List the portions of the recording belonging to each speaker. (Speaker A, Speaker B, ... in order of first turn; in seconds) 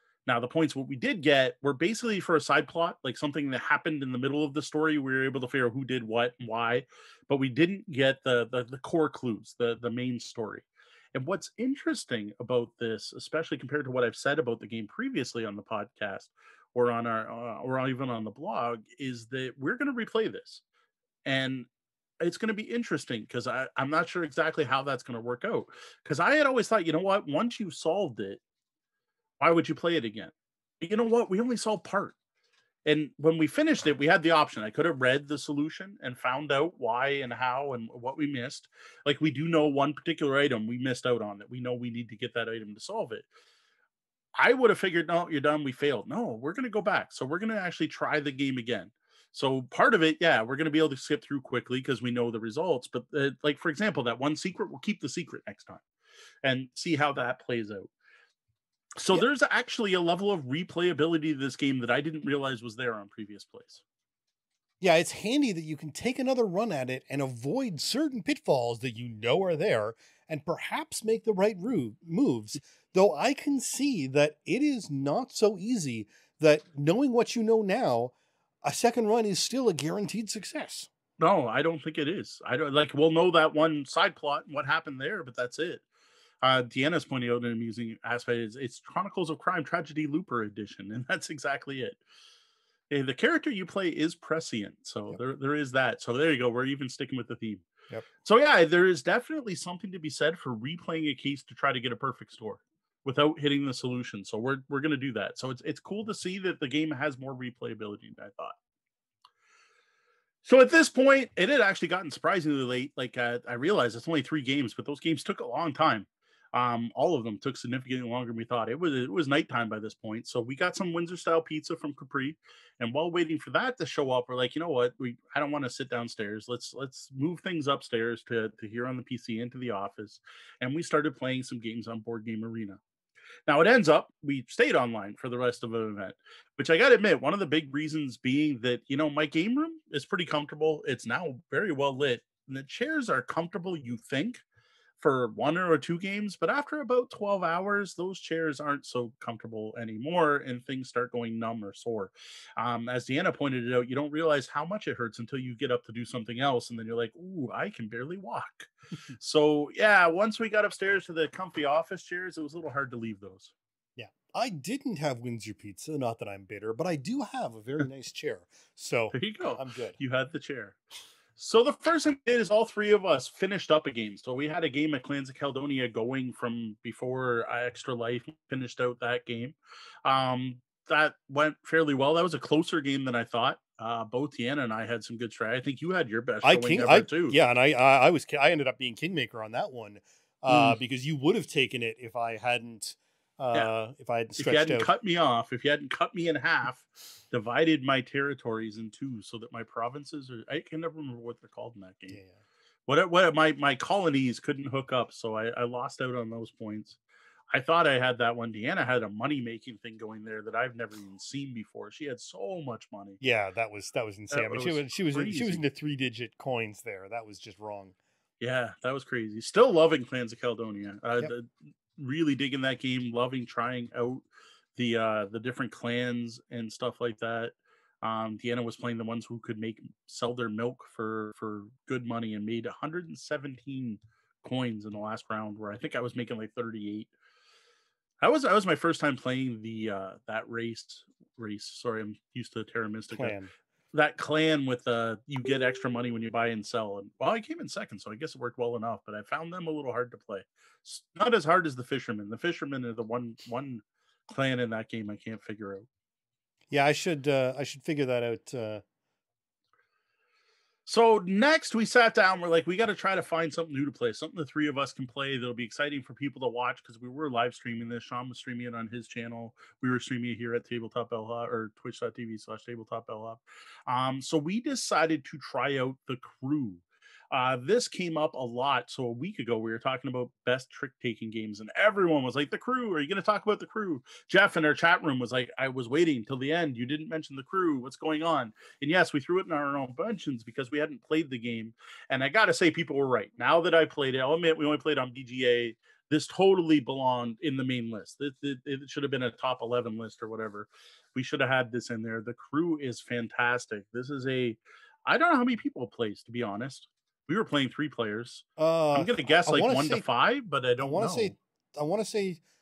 Speaker A: 0.3-20.6, 21.2-21.7, 22.2-28.4, 29.4-32.2, 32.9-43.3, 44.4-55.8, 56.4-57.9, 59.0-63.8, 81.2-85.8, 86.4-92.0, 92.9-97.7, 98.2-108.6, 110.4-132.8, 133.5-144.4, 145.0-163.5, 169.1-170.8, 171.4-187.3, 190.5-190.8, 194.4-202.2, 202.9-207.0, 207.5-213.2, 214.3-215.6, 218.4-224.2, 224.8-237.1, 238.2-243.4, 243.9-255.9, 260.9-311.4
Speaker B: 64.8-78.1, 78.6-80.9, 164.0-170.0, 186.4-194.9, 202.1-202.4, 213.2-217.9, 243.1-243.5, 256.7-258.8, 308.6-310.1, 310.8-312.4